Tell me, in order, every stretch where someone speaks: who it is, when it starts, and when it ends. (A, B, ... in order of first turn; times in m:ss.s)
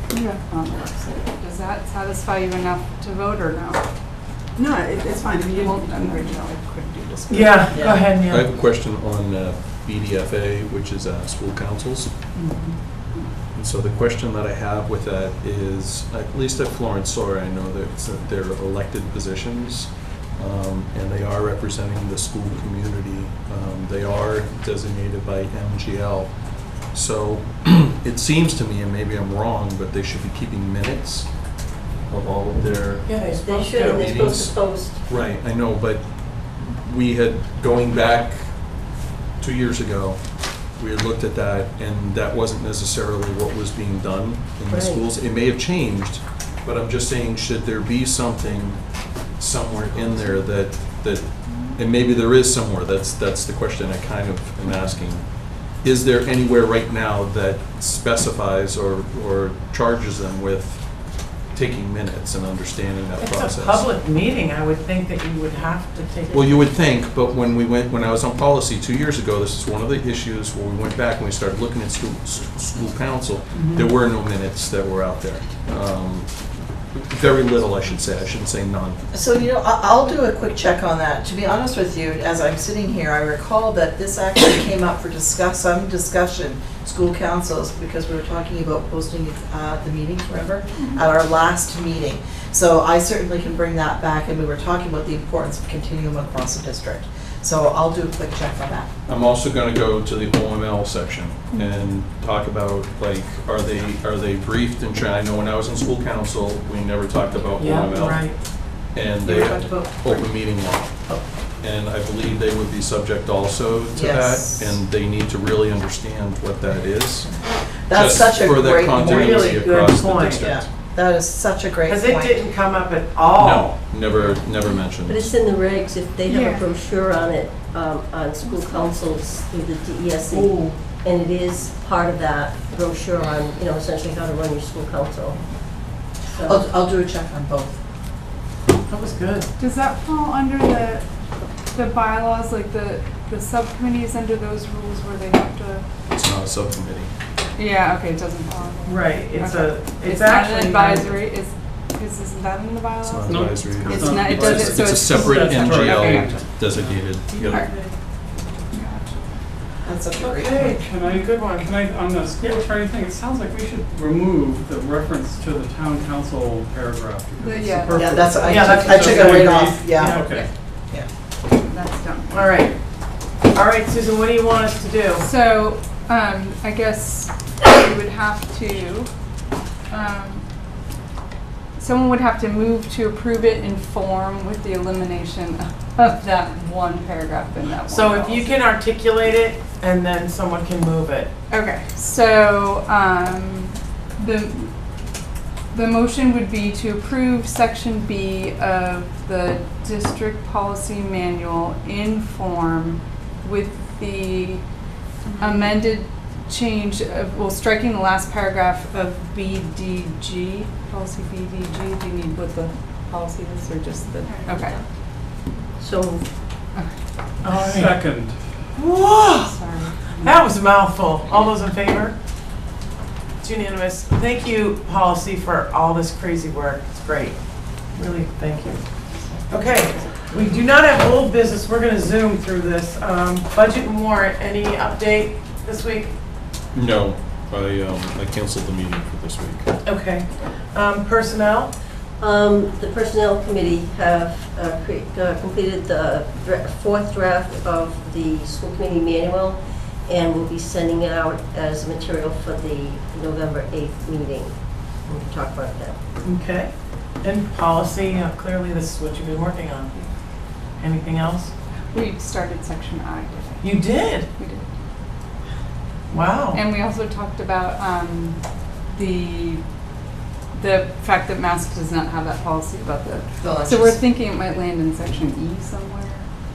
0:00.1-0:00.4 A
0:00.3-0:03.8 B
0:04.6-0:06.3 A
0:05.4-0:07.8 B
0:07.3-0:08.5 C
0:07.7-0:08.0 D
0:08.3-0:12.1 E
0:12.4-0:13.2 B
0:13.5-0:33.2 E
0:33.0-0:34.1 C
0:33.2-0:35.0 F
0:33.7-1:03.9 E
0:44.7-0:45.0 F
1:03.2-1:06.5 C
1:06.3-1:19.0 E
1:19.1-1:38.9 D
1:39.1-1:51.0 E
1:47.6-1:48.4 C
1:49.2-1:50.4 D
1:51.6-2:00.7 E
1:53.9-1:54.7 D
1:57.9-1:59.6 D
1:58.9-2:00.4 C
2:00.4-2:02.4 D
2:01.8-2:03.7 C
2:03.3-2:05.3 E
2:05.0-2:15.4 F
2:06.3-2:06.6 B
2:10.3-2:10.8 C
2:16.3-2:16.6 F
2:16.4-2:17.8 D
2:18.9-2:19.5 C
2:19.6-2:21.0 B
2:21.7-2:25.8 B
2:26.1-2:27.1 E
2:27.6-2:36.5 B
2:28.8-2:31.2 C
2:33.0-2:37.8 E
2:33.3-2:36.9 G
2:37.3-2:37.9 C
2:37.5-2:37.7 B
2:38.7-2:39.3 B
2:39.8-2:40.7 D
2:40.1-2:41.8 C
2:40.7-2:50.4 G
2:47.4-2:49.2 B
2:47.9-2:50.3 D
2:48.4-2:49.3 C
2:50.0-2:50.2 C
2:50.2-2:50.5 B
2:51.6-2:52.5 B
2:52.3-2:52.7 C
2:53.5-2:55.2 C
2:55.2-2:59.1 B
2:59.9-3:00.4 B
3:01.8-3:08.7 B
3:07.9-3:11.3 C
3:11.5-3:14.7 B
3:15.7-3:24.6 B
3:25.4-3:34.8 B
3:35.8-3:36.2 F
3:37.4-3:38.1 C
3:37.5-3:38.4 G
3:38.7-3:39.6 C
3:39.4-3:40.4 B
3:40.2-3:42.1 C
3:43.4-3:47.4 C
3:47.9-3:48.8 C
3:49.5-3:56.1 C
3:56.7-3:59.7 E
3:59.8-4:01.7 C
4:02.2-4:16.0 F
4:16.2-4:16.7 C
4:17.2-4:19.9 C
4:20.8-4:21.5 C
4:21.9-4:24.6 B
4:23.6-4:24.3 C
4:26.1-4:26.6 C
4:26.5-4:28.4 B
4:28.9-4:29.6 B
4:30.5-4:36.3 B
4:33.4-4:34.0 D